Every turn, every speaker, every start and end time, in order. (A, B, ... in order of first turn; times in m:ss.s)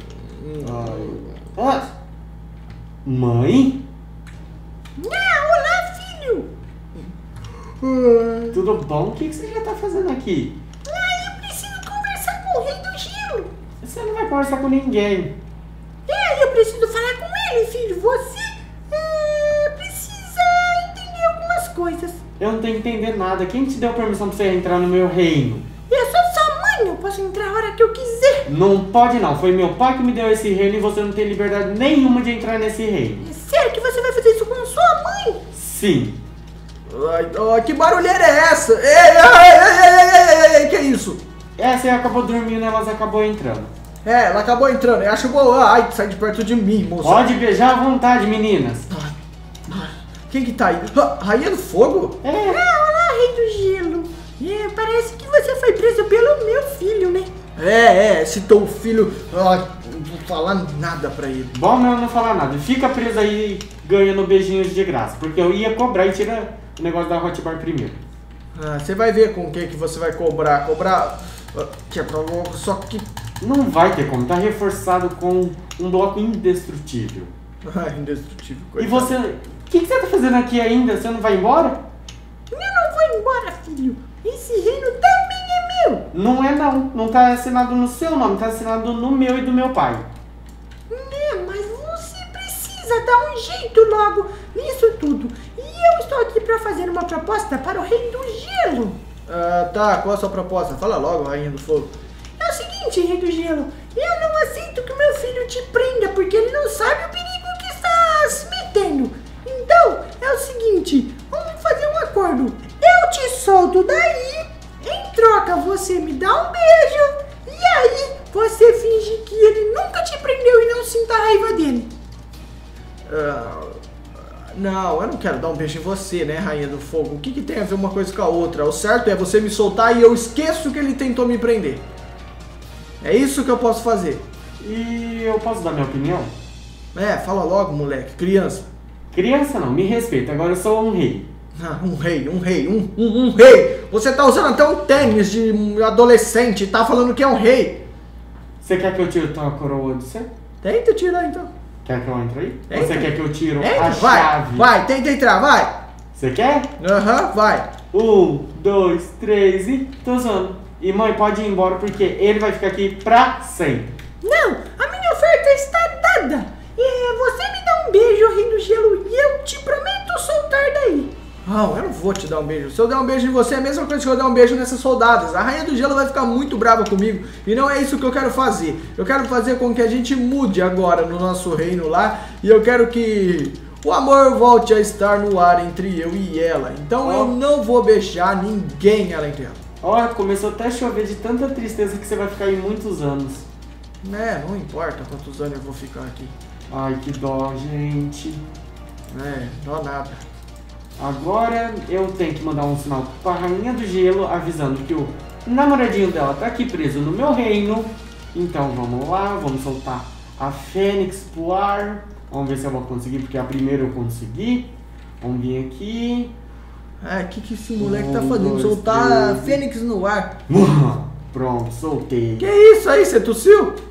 0:00.2-0:01.3 A
0:00.6-0:01.9 B
0:03.0-0:03.8 B
0:05.0-0:06.5 C
0:07.6-0:08.6 A
0:08.5-0:10.6 B
0:10.8-0:13.5 C
0:13.8-0:15.3 B
0:16.1-0:22.2 C
0:22.4-0:25.7 B
0:25.9-0:28.4 C
0:28.4-0:33.2 B
0:33.2-0:35.4 C
0:35.5-0:36.2 B
0:36.9-0:41.2 A
0:41.6-0:43.7 B
0:44.0-0:47.3 A
0:47.0-0:48.9 B
0:48.9-0:52.2 A
0:52.2-0:52.6 B
0:52.4-0:57.3 C
0:57.6-1:01.5 A
1:01.5-1:08.0 B
1:08.5-1:13.0 A
1:13.4-1:17.3 B
1:17.6-1:19.1 A
1:18.8-1:21.8 B
1:22.5-1:26.0 C
1:26.1-1:30.1 B
1:30.9-1:39.0 C
1:39.3-1:41.9 A
1:42.4-2:01.9 C
2:03.0-2:03.8 A
2:04.5-2:11.8 A
2:13.0-2:14.2 A
2:14.6-2:16.3 B
2:16.9-2:18.7 A
2:19.1-2:21.3 B
2:21.5-2:27.8 A
2:28.6-2:30.3 B
2:30.6-2:31.5 A
2:31.8-2:34.7 B
2:32.7-2:35.7 A
2:36.1-2:36.7 B
2:36.8-2:37.7 A
2:37.9-2:43.9 B
2:44.2-2:51.1 C
2:51.4-3:09.6 A
3:07.0-3:07.3 B
3:09.8-3:13.5 B
3:14.0-3:16.3 A
3:16.7-3:18.4 B
3:19.1-3:20.2 A
3:21.0-3:34.7 B
3:35.2-3:36.3 B
3:37.0-3:40.3 A
3:37.8-3:39.6 B
3:40.5-3:42.5 B
3:42.4-3:43.7 A